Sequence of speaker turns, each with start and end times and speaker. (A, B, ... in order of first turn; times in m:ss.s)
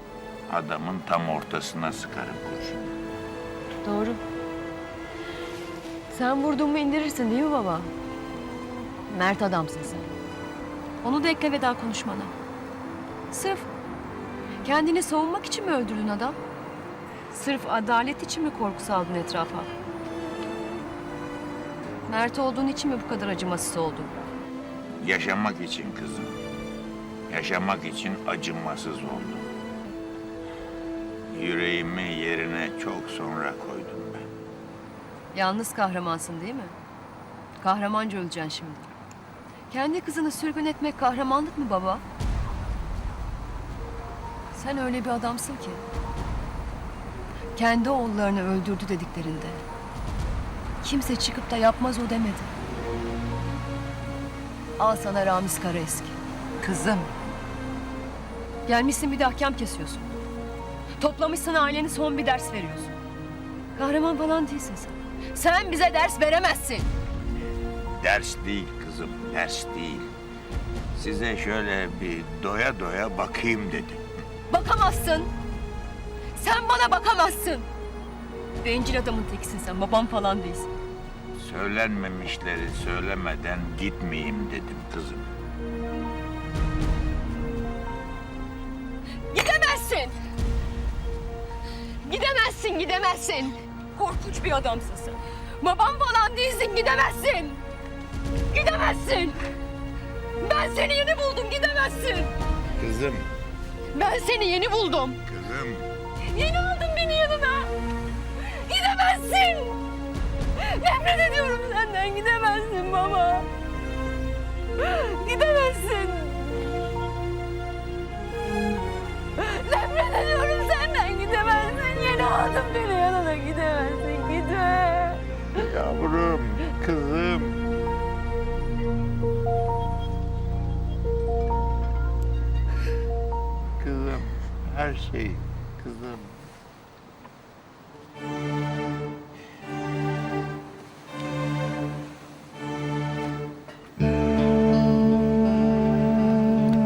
0:00.5-0:02.9 A
0:03.8-0:04.2 B
0:06.1-0:07.9 B
0:09.1-0:10.1 B
0:11.0-0:12.3 B
0:13.3-0:13.7 B
0:14.6-0:16.4 B
0:17.3-0:19.7 B
0:22.1-0:24.3 B
0:25.0-0:26.4 A
0:27.3-0:29.5 A
0:31.3-0:34.2 A
0:35.3-0:36.7 B
0:37.6-0:38.9 B
0:39.7-0:42.0 B
0:44.5-0:45.8 B
0:47.5-0:49.6 B
0:50.8-0:52.5 B
0:54.8-0:57.1 B
0:58.6-1:00.2 B
1:01.0-1:02.9 B
1:03.7-1:06.9 B
1:08.0-1:10.1 A
1:10.9-1:14.0 A
1:14.5-1:15.3 B
1:16.3-1:17.7 B
1:18.6-1:20.7 B
1:21.4-1:25.3 A
1:29.3-1:30.2 B
1:32.0-1:37.6 B
1:38.5-1:39.4 B
1:40.4-1:42.3 B
1:42.8-1:43.3 A
1:43.9-1:45.2 B
1:45.3-1:45.9 A
1:46.2-1:47.7 B
1:48.4-1:49.8 B
1:50.6-1:53.5 B
1:54.8-1:56.8 B
1:59.4-2:05.2 B
2:05.5-2:07.6 A
2:13.8-2:16.4 A